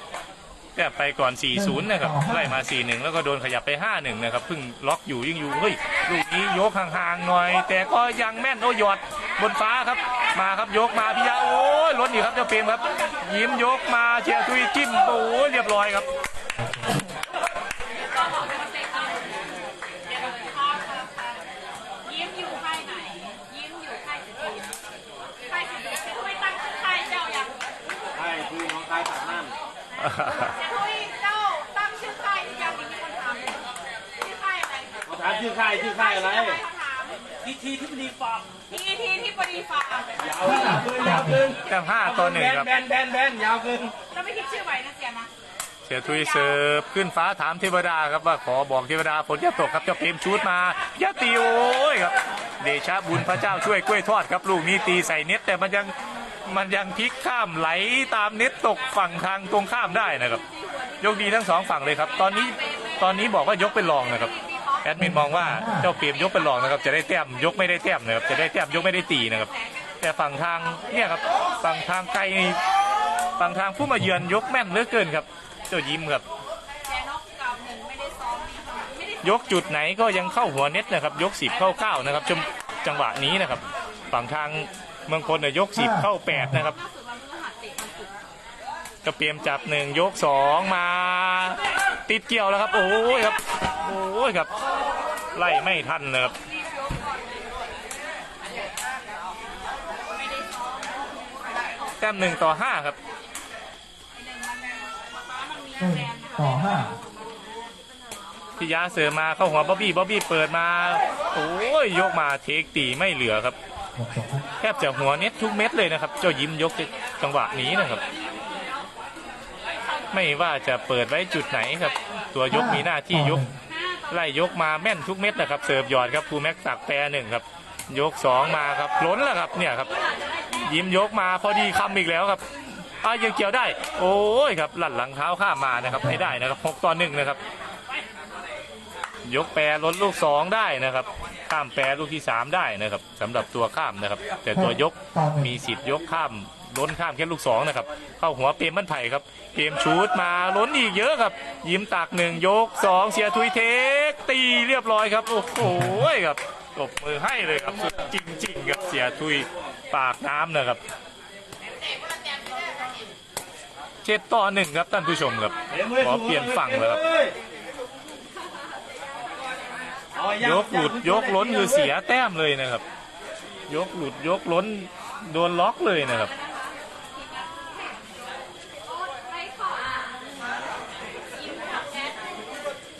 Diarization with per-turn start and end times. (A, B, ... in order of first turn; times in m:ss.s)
0:00.8-0:16.1 A
0:01.5-0:02.6 B
0:16.6-0:17.0 B
0:18.0-0:19.6 C
0:20.1-0:21.4 C
0:22.0-0:24.8 C
0:25.4-0:27.6 C
0:28.1-0:29.5 D
0:30.0-0:30.5 A
0:30.4-0:37.3 C
0:35.1-0:36.6 D
0:37.4-0:38.5 D
0:38.7-0:40.9 C
0:40.2-0:43.9 D
0:40.4-0:41.5 B
0:41.7-0:42.7 A
0:44.1-0:45.3 C
0:45.8-0:55.9 A
0:53.1-0:53.6 B
0:56.4-1:00.4 A
1:00.4-1:01.4 C
1:01.0-1:04.3 A
1:02.3-1:03.0 C
1:04.3-1:05.1 C
1:04.8-1:12.6 A
1:05.0-1:05.9 B
1:13.4-1:16.2 A
1:13.8-1:14.3 B
1:16.8-1:19.4 C
1:19.2-1:26.8 A
1:25.7-1:26.6 B
1:26.5-1:28.2 C
1:29.0-1:34.5 A
1:35.3-1:36.3 A
1:36.4-1:37.7 C
1:40.1-1:42.2 C
1:42.0-1:43.0 A
1:44.2-1:48.6 C
1:45.8-1:47.0 B
1:48.6-1:53.6 A
1:54.0-1:54.4 B
1:54.6-1:58.0 A
1:58.0-1:58.8 C
2:00.1-2:03.4 A
2:02.5-2:03.5 B
2:03.7-2:04.0 C
2:04.1-2:09.9 A
2:10.2-2:10.7 C
2:10.6-2:12.4 A
2:13.0-2:17.4 A
2:15.8-2:16.4 B
2:19.2-2:40.8 A
2:24.5-2:25.6 B
2:35.6-2:36.1 B
2:44.0-2:47.0 A
2:45.7-2:47.4 D
2:48.5-2:49.5 C
2:50.1-2:51.9 D
2:50.4-2:52.8 A
2:53.7-2:56.3 A
2:56.2-3:00.5 C
3:01.2-3:02.4 C